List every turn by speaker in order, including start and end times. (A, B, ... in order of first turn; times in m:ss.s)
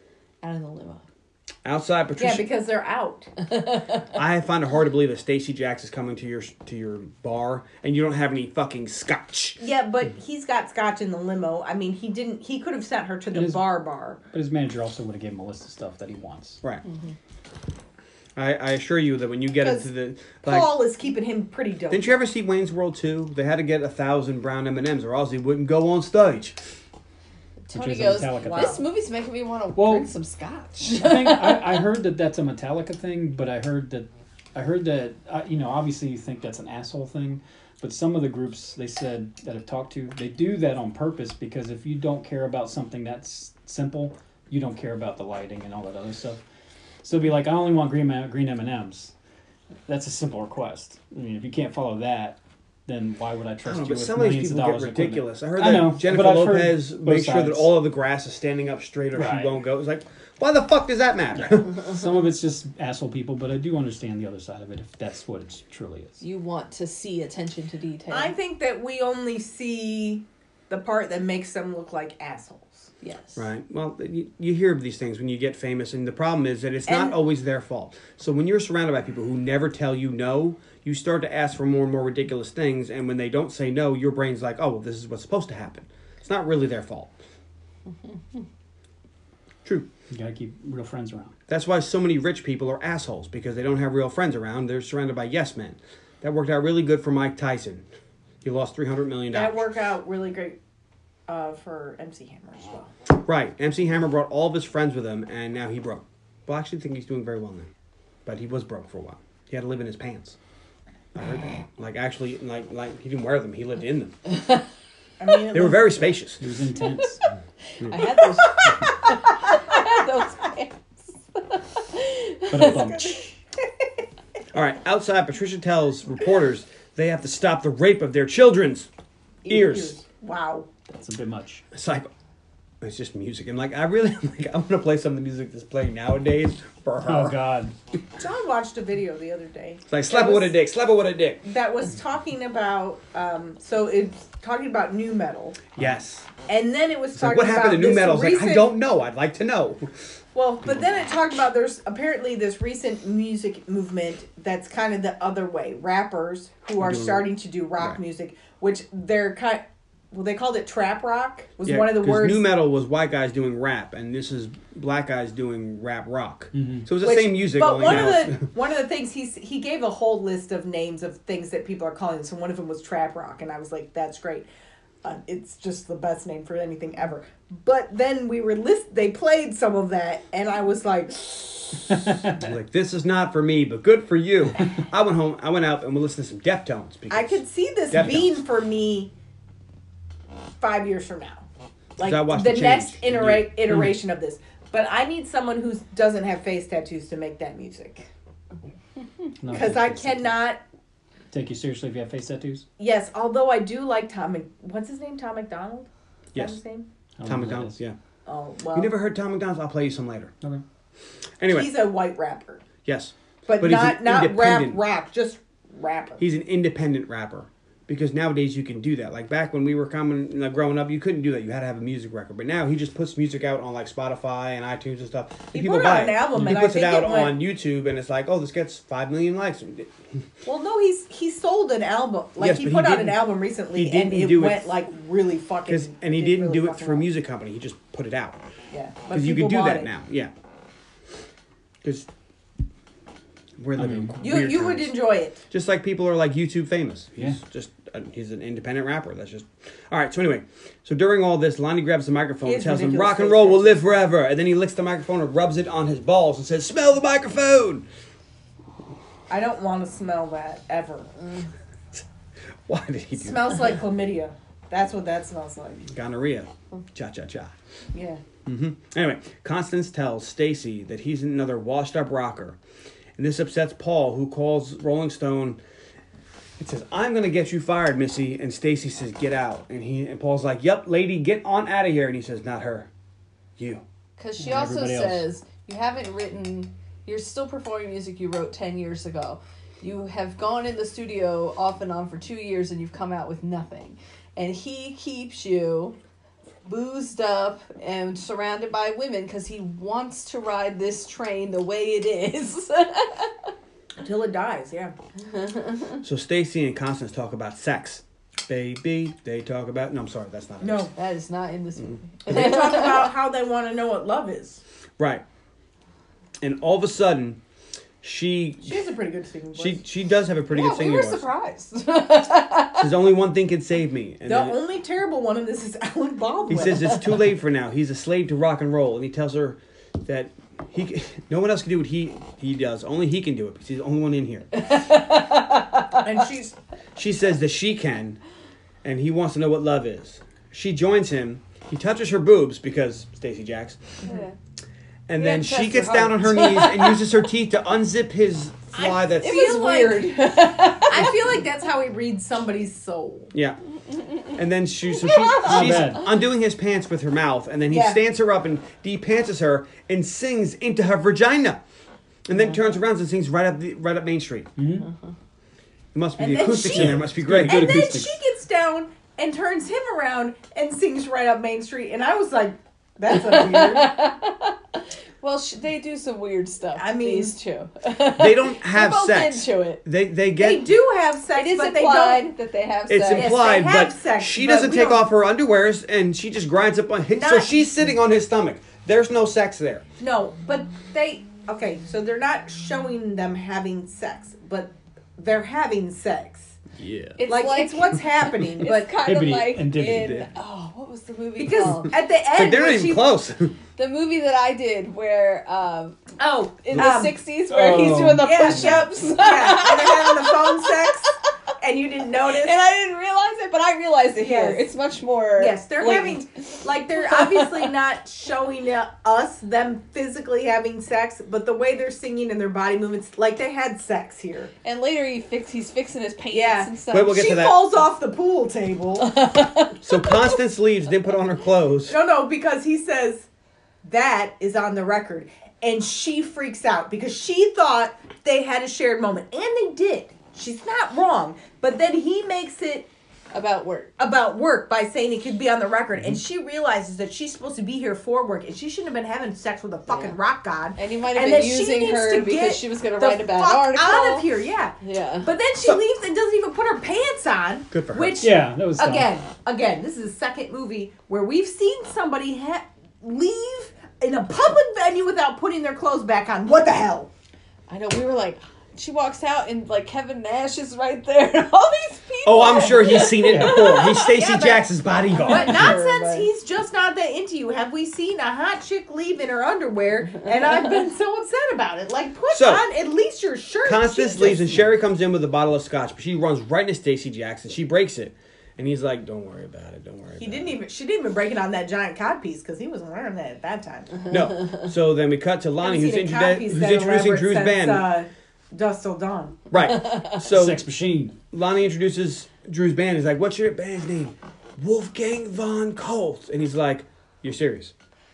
0:00.4-0:01.0 A
0:01.6-0:02.4 B
0:02.2-0:03.3 C
0:04.1-0:09.6 B
0:09.6-0:14.2 C
0:13.3-0:13.8 D
0:14.3-0:16.6 D
0:18.4-0:20.8 B
0:19.6-0:19.9 C
0:20.4-0:22.2 C
0:21.9-0:26.6 B
0:27.7-0:31.7 A
0:27.7-0:28.8 D
0:28.4-0:28.8 C
0:29.8-0:30.1 D
0:30.8-0:46.4 D
0:47.0-0:49.1 D
0:49.9-0:57.7 D
0:53.6-1:01.7 B
0:59.1-0:59.5 D
1:01.4-1:06.2 D
1:06.2-1:08.3 A
1:08.1-1:12.9 C
1:13.0-1:13.5 A
1:13.4-1:27.1 B
1:16.9-1:17.2 C
1:30.1-1:31.3 D
1:31.5-1:37.8 B
1:38.4-1:39.6 B
1:39.3-1:40.6 C
1:41.3-1:42.9 C
1:43.2-1:47.7 B
1:48.3-1:50.4 B
1:51.2-1:54.2 B
1:55.2-1:56.2 C
1:55.5-1:56.4 B
1:56.4-1:57.2 D
1:57.8-2:02.9 A
1:58.4-1:59.9 C
2:02.5-2:03.3 D
2:02.6-2:03.3 C
2:04.5-2:08.9 B
2:09.4-2:10.7 C
2:09.5-2:10.0 B
2:10.9-2:11.6 D
2:11.7-2:12.1 B
2:12.8-2:17.4 B
2:17.1-2:17.7 D
2:18.2-2:20.6 C
2:19.9-2:21.4 B
2:21.4-2:25.6 C
2:25.8-2:26.3 B
2:26.5-2:28.8 C
2:27.2-2:29.9 B
2:30.3-2:42.5 C
2:36.8-2:37.3 B
2:41.6-2:48.5 B
2:46.5-2:46.9 D
2:47.0-2:54.5 C
2:55.0-3:01.9 C
3:02.0-3:02.4 D
3:02.4-3:08.4 B
3:07.1-3:09.1 C
3:10.6-3:11.5 C
3:12.0-3:18.1 C
3:12.0-3:13.6 B
3:19.4-3:20.3 D
3:19.5-3:20.6 C
3:21.3-3:22.7 D
3:22.8-3:26.9 C
3:26.3-3:26.6 B
3:27.2-3:27.8 D
3:27.2-3:28.0 B
3:28.3-3:28.9 C
3:28.7-3:30.3 B
3:31.4-3:31.7 B
3:31.5-3:32.6 C
3:32.8-3:34.8 B
3:33.5-3:36.2 C
3:36.2-3:49.9 B
3:45.5-3:47.4 C
3:50.4-3:57.1 C
3:52.4-3:54.8 B
3:55.7-3:58.4 B
3:58.7-3:59.9 C
3:59.1-4:00.3 B
4:01.8-4:02.1 B
4:03.6-4:17.9 B
4:03.8-4:04.2 D
4:04.2-4:05.4 C
4:12.4-4:13.8 C
4:19.3-4:21.1 C
4:22.7-4:23.6 B
4:23.2-4:25.8 C
4:25.9-4:27.5 B
4:27.9-4:28.2 C
4:28.5-4:32.6 B
4:33.2-4:35.6 B
4:36.6-4:42.9 B
4:43.6-4:43.8 B
4:44.2-4:56.0 A
4:44.4-4:45.3 D
4:56.7-5:03.5 A
5:04.0-5:05.0 C
5:05.3-5:06.0 A
5:06.0-5:10.9 B
5:10.6-5:10.9 C
5:11.0-5:13.1 A
5:12.3-5:14.6 C
5:15.0-5:15.2 B
5:16.4-5:17.4 B
5:18.0-5:18.9 B
5:18.6-5:19.8 C
5:19.6-5:21.3 B
5:20.5-5:22.9 A
5:22.8-5:24.6 B
5:24.3-5:27.0 C
5:26.5-5:34.5 B
5:34.6-5:36.0 A
5:36.0-5:36.5 C
5:37.0-5:38.2 B
5:38.8-5:43.9 B
5:44.0-5:44.4 A
5:45.1-5:49.6 B
5:45.2-5:47.1 A
5:48.8-5:53.3 C
5:49.1-5:51.3 A
5:53.3-5:53.6 B
5:54.3-6:01.6 B
5:55.0-5:55.9 A
5:55.4-5:56.1 D
5:57.7-5:58.0 C
6:02.3-6:04.5 B
6:04.6-6:04.9 D
6:05.9-6:07.9 B
6:06.2-6:14.0 C
6:06.6-6:08.2 D
6:13.1-6:19.8 A
6:16.8-6:17.4 C
6:18.2-6:20.7 B
6:20.4-6:22.3 C
6:21.4-6:23.4 A
6:22.9-6:29.8 B
6:23.1-6:25.1 C
6:27.1-6:27.6 C
6:30.0-6:36.6 C
6:36.8-6:37.2 B
6:37.2-6:41.9 A
6:37.2-6:38.9 C
6:39.0-6:40.3 D
6:41.4-6:43.1 C
6:42.3-6:43.6 B
6:43.8-6:46.2 A
6:46.2-6:47.2 C
6:46.7-6:51.1 A
6:47.5-6:48.9 D
6:48.1-6:52.6 C
6:52.3-6:56.2 A
6:54.2-6:54.7 C
6:55.4-7:04.5 C
6:57.0-6:57.7 A
7:04.6-7:07.2 A
7:06.3-7:09.2 C
7:06.9-7:07.7 B
7:09.1-7:10.4 A
7:09.8-7:12.0 B
7:11.9-7:13.3 C
7:13.8-7:22.9 C
7:23.3-7:23.9 A
7:24.0-7:47.1 C
7:29.9-7:30.2 A
7:30.8-7:34.3 A
7:34.8-7:35.3 A
7:37.7-7:38.2 B
7:38.2-7:39.1 D
7:47.7-7:54.6 A
7:52.2-7:55.8 B
7:53.2-7:53.8 D
7:54.2-7:54.6 C
7:55.1-7:56.3 A
7:55.2-8:04.6 C
8:02.3-8:02.6 B
8:03.6-8:10.6 B
8:10.2-8:14.0 C
8:14.1-8:17.9 B
8:15.6-8:19.4 C
8:19.5-8:20.6 B
8:20.2-8:21.2 D
8:21.3-8:27.7 B